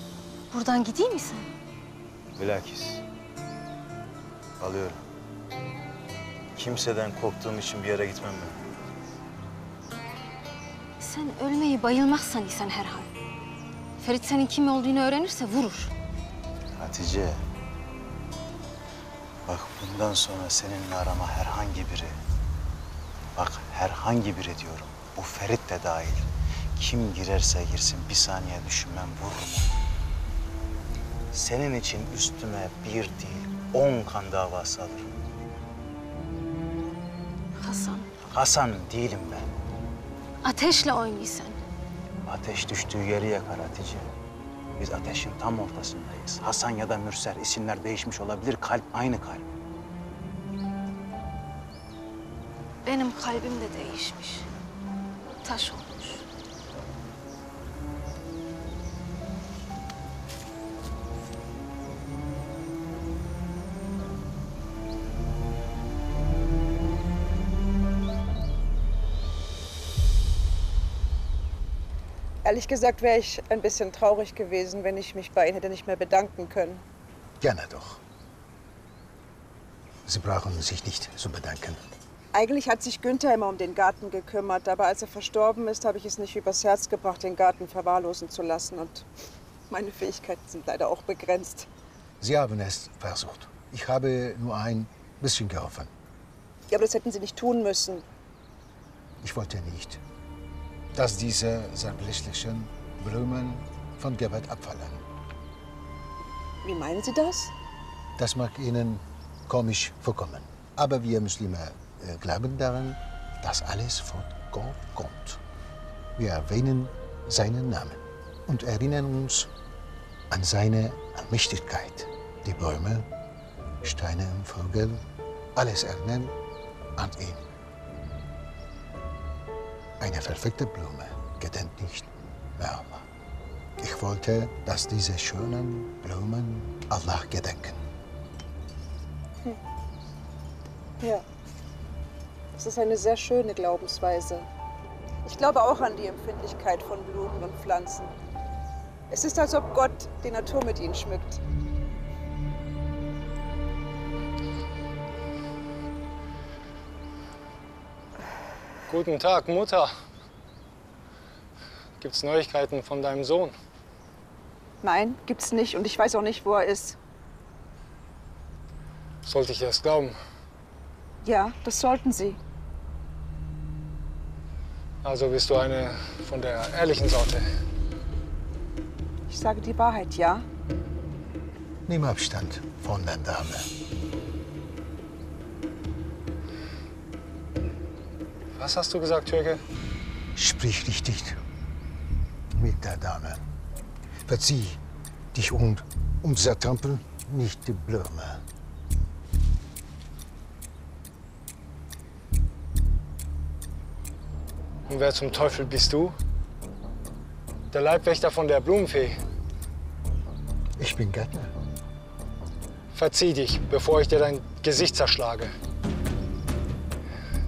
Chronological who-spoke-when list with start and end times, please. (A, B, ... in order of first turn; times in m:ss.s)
0:00.5-0:01.5 A
0:02.4-0:03.0 B
0:04.6-0:05.0 B
0:06.6-0:08.6 B
0:11.0-0:13.1 A
0:14.0-0:15.9 A
0:16.8-0:17.4 B
0:19.5-0:22.2 B
0:23.4-0:29.8 B
0:31.3-0:35.1 B
0:37.6-0:38.1 A
0:38.3-0:39.5 B
0:40.4-0:41.6 A
0:42.3-0:44.1 B
0:44.8-0:49.5 B
0:52.9-0:54.5 A
0:55.4-0:56.2 A
1:12.4-1:16.8 C
1:17.4-1:18.0 D
1:20.1-1:21.8 D
1:22.3-1:29.1 C
1:29.7-1:31.7 C
1:32.2-1:35.9 D
1:36.7-1:38.0 C
1:39.2-1:40.0 D
1:41.0-1:45.0 D
1:46.6-1:47.5 C
1:48.2-1:55.4 D
1:56.2-1:59.5 D
2:00.3-2:03.1 D
2:03.8-2:05.0 D
2:05.6-2:06.3 D
2:07.0-2:07.4 D
2:10.0-2:13.1 D
2:13.8-2:17.8 D
2:22.6-2:24.5 C
2:25.2-2:28.1 C
2:29.1-2:31.4 C
2:38.9-2:39.9 E
2:42.0-2:43.5 E
2:44.8-2:47.0 C
2:49.2-2:50.2 E
2:51.2-2:52.4 C
2:55.0-2:57.5 E
2:59.3-3:00.5 C
3:01.9-3:03.7 D
3:08.6-3:09.6 E
3:10.4-3:11.4 D
3:12.6-3:13.4 D
3:14.3-3:14.8 D
3:15.3-3:18.4 D
3:24.9-3:26.2 E
3:27.7-3:29.2 E
3:30.8-3:31.5 D
3:32.9-3:35.5 E